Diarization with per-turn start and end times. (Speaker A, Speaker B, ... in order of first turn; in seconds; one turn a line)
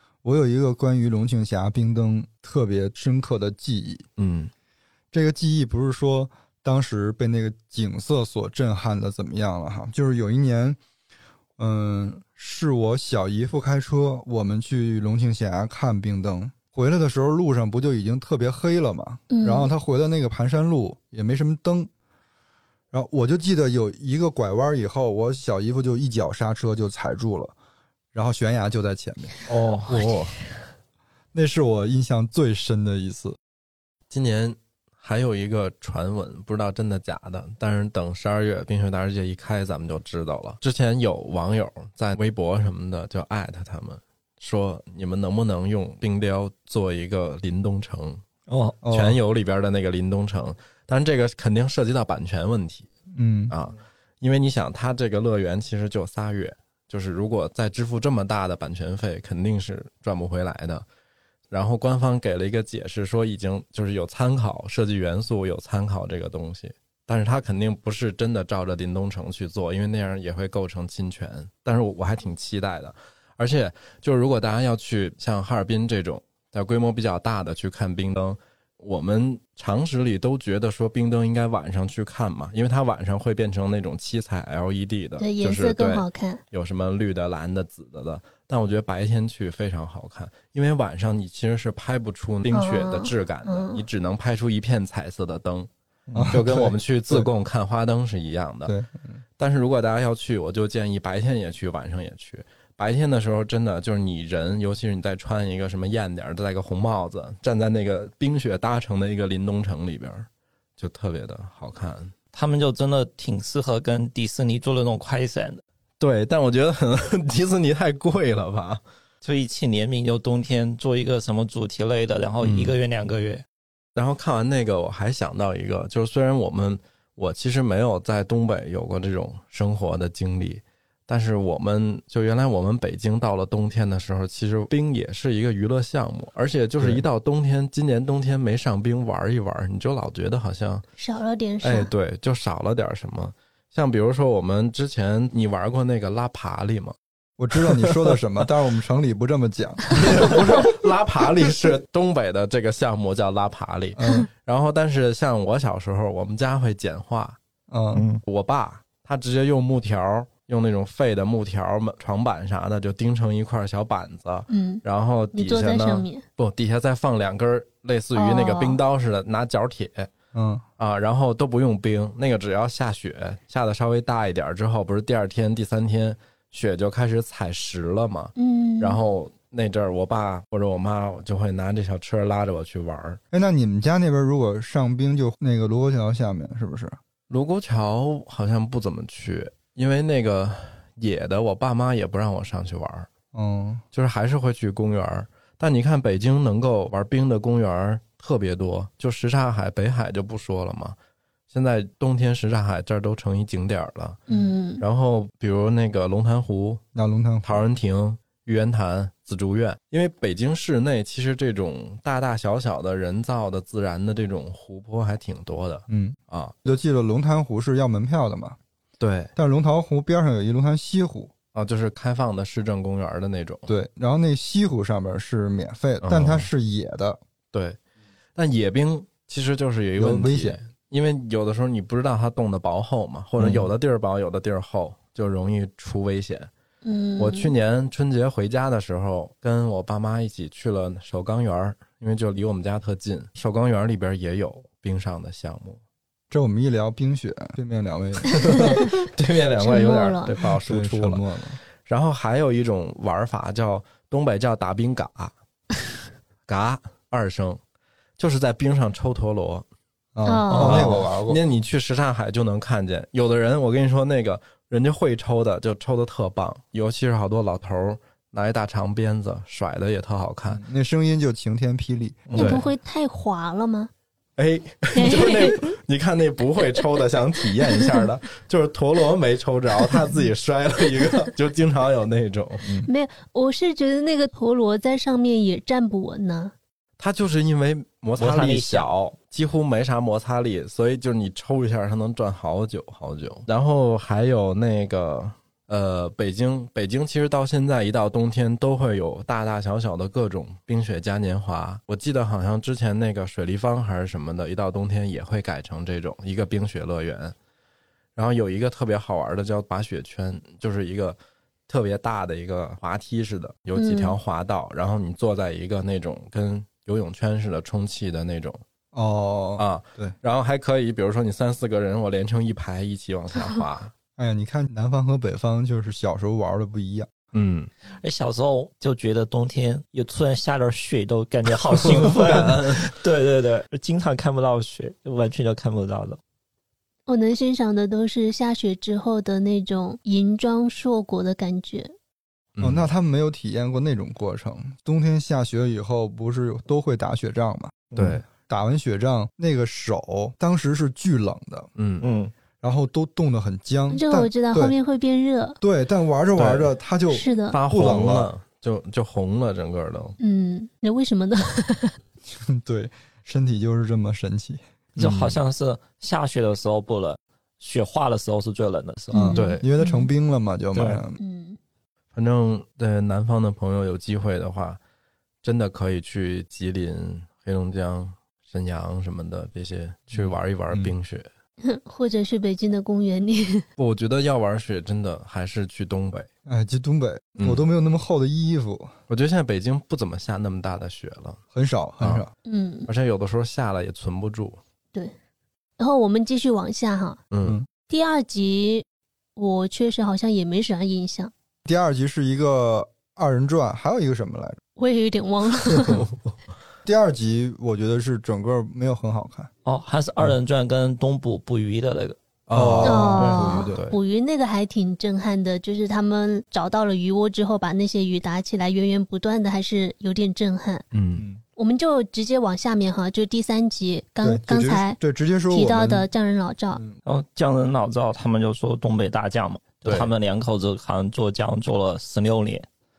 Speaker A: 0.2-4.0
Speaker B: 4.2-4.5
Speaker A: 5.1-10.8
Speaker A: 11.6-21.9
Speaker C: 19.3-19.7
Speaker A: 22.9-27.5
Speaker A: 28.1-29.3
Speaker D: 29.5-30.1
Speaker B: 29.9-30.3
Speaker A: 31.3-33.4
Speaker B: 34.1-48.2
Speaker D: 48.5-48.8
Speaker A: 48.8-49.2
Speaker B: 48.9-52.9
Speaker A: 53.1-53.5
Speaker B: 53.5-60.8
Speaker B: 61.5-95.7
Speaker C: 85.2-86.4
Speaker C: 92.5-93.8
Speaker A: 96.1-97.3
Speaker B: 96.3-98.7
Speaker A: 98.7-99.2
Speaker B: 99.4-110.2
Speaker B: 110.8-112.1
Speaker D: 112.3-115.6
Speaker B: 116.0-118.8
Speaker D: 119.2-123.4
Speaker B: 122.4-122.7
Speaker B: 124.0-140.8
Speaker A: 136.8-137.0
Speaker C: 141.0-141.9
Speaker B: 141.6-146.9
Speaker A: 147.4-150.6
Speaker B: 147.7-148.2
Speaker B: 149.9-157.4
Speaker A: 154.0-154.3
Speaker A: 157.7-158.1
Speaker D: 157.9-158.2
Speaker B: 158.2-170.1
Speaker C: 164.5-164.8
Speaker C: 165.3-166.2
Speaker C: 168.1-168.8
Speaker A: 170.3-170.6
Speaker B: 170.8-183.2
Speaker C: 178.4-179.0
Speaker A: 183.3-187.0
Speaker B: 187.3-193.1
Speaker A: 193.3-193.8
Speaker B: 193.9-200.9
Speaker B: 201.5-204.2
Speaker C: 204.3-204.8
Speaker B: 204.8-206.8
Speaker A: 206.9-207.6
Speaker B: 207.4-216.5
Speaker A: 215.9-218.6
Speaker B: 219.0-219.3
Speaker A: 219.3-221.3
Speaker B: 221.5-223.7
Speaker A: 223.7-227.2
Speaker B: 226.0-226.5
Speaker B: 227.5-227.8
Speaker B: 228.3-236.5
Speaker A: 230.0-230.6
Speaker A: 233.4-233.7
Speaker C: 236.8-237.5
Speaker B: 237.2-245.8
Speaker A: 246.3-248.8
Speaker B: 248.4-251.2
Speaker C: 248.4-248.9
Speaker C: 249.6-250.4
Speaker A: 250.6-251.6
Speaker B: 251.8-255.3
Speaker B: 256.5-257.6
Speaker B: 258.2-259.6
Speaker A: 260.1-261.4
Speaker C: 260.2-260.9
Speaker B: 260.5-270.6
Speaker A: 270.5-272.5
Speaker B: 272.3-272.6
Speaker C: 272.3-273.9
Speaker B: 274.4-282.7
Speaker C: 274.9-275.7
Speaker C: 282.9-286.5
Speaker B: 287.0-307.3
Speaker D: 288.2-288.9
Speaker B: 308.1-318.6
Speaker C: 313.8-314.1
Speaker A: 318.9-320.1
Speaker B: 319.6-323.9
Speaker A: 324.2-327.1
Speaker B: 327.3-327.7
Speaker D: 328.0-336.2
Speaker B: 331.7-332.9
Speaker C: 337.1-341.9
Speaker B: 342.6-342.9
Speaker A: 342.6-351.7
Speaker B: 347.9-348.2
Speaker B: 351.8-352.1
Speaker D: 352.0-352.3
Speaker A: 352.6-354.8
Speaker C: 353.9-355.6
Speaker A: 355.6-358.3
Speaker B: 356.4-356.7
Speaker C: 357.1-357.6
Speaker B: 357.5-360.2
Speaker C: 360.2-362.0
Speaker A: 362.3-365.1
Speaker B: 365.0-365.4
Speaker D: 365.0-369.3
Speaker C: 369.1-370.1
Speaker A: 369.1-371.2
Speaker B: 369.3-369.6
Speaker D: 370.7-371.0
Speaker C: 371.2-371.6
Speaker B: 372.1-374.8
Speaker B: 375.4-381.3
Speaker A: 380.1-380.9
Speaker C: 381.6-383.6
Speaker B: 383.8-386.3
Speaker A: 386.5-388.9
Speaker B: 387.4-387.6
Speaker B: 389.1-391.4
Speaker A: 391.5-392.3
Speaker C: 392.4-392.9
Speaker B: 392.9-394.6
Speaker C: 395.8-397.2
Speaker B: 397.3-397.6
Speaker C: 397.9-398.8
Speaker C: 399.4-401.3
Speaker A: 401.6-404.6
Speaker C: 404.8-406.0
Speaker A: 406.8-409.5
Speaker D: 409.6-412.2
Speaker B: 412.5-414.0
Speaker A: 412.5-413.7
Speaker C: 412.8-420.8
Speaker D: 413.2-413.5
Speaker B: 420.9-421.2
Speaker C: 421.6-425.0
Speaker A: 424.2-426.1
Speaker C: 425.5-426.8
Speaker D: 427.0-432.7
Speaker B: 429.8-430.1